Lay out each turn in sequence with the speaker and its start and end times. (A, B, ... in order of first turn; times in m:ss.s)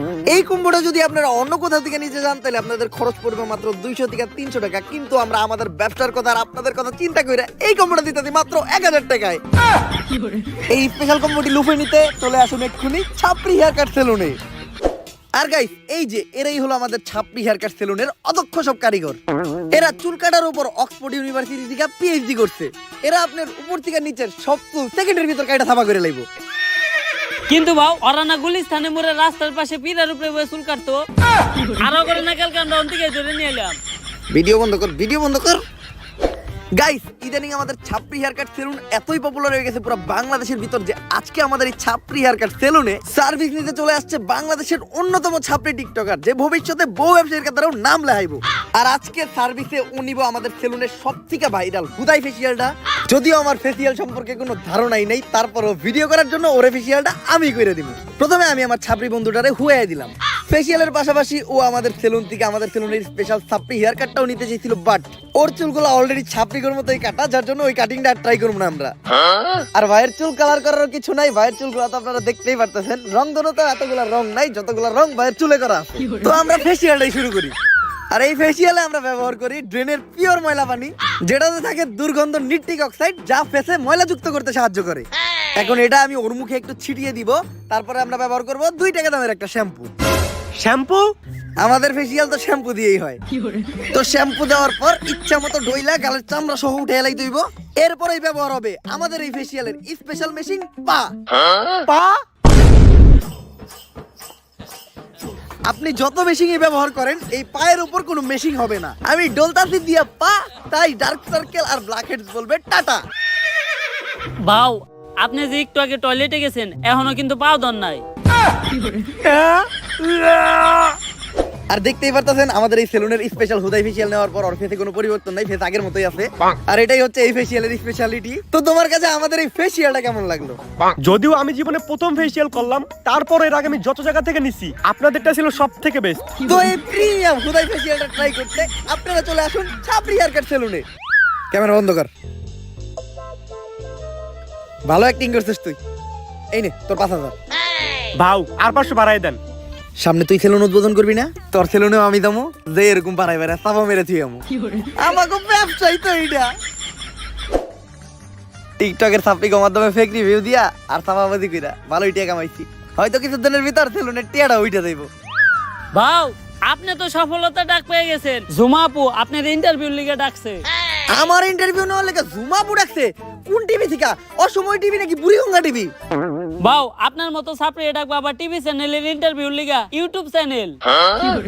0:00.3-0:09.4 A
0:10.7-0:14.4 A
0:15.3-0:19.2 A
0:19.7-0:26.2 A
0:27.5-0:31.0 B
0:31.8-0:33.8 B
0:34.3-0:35.6 A
0:36.8-1:08.9 A
1:09.7-1:17.5 A
1:18.1-1:29.9 A
1:30.6-1:31.0 C
1:31.6-1:33.2 A
1:33.9-1:41.1 A
1:41.9-1:42.1 C
1:45.7-1:53.0 A
1:54.4-1:58.0 B
1:59.2-1:59.6 C
2:00.1-2:00.8 C
2:01.7-2:10.6 A
2:11.0-2:16.3 C
2:16.4-2:20.8 A
2:21.5-2:22.1 A
2:24.9-2:25.8 A
2:26.5-2:27.3 A
2:28.1-2:29.4 C
2:30.0-2:34.4 A
2:35.0-2:36.5 A
2:38.8-2:45.1 A
2:45.9-2:50.6 B
2:51.1-2:55.9 A
2:56.6-3:01.3 B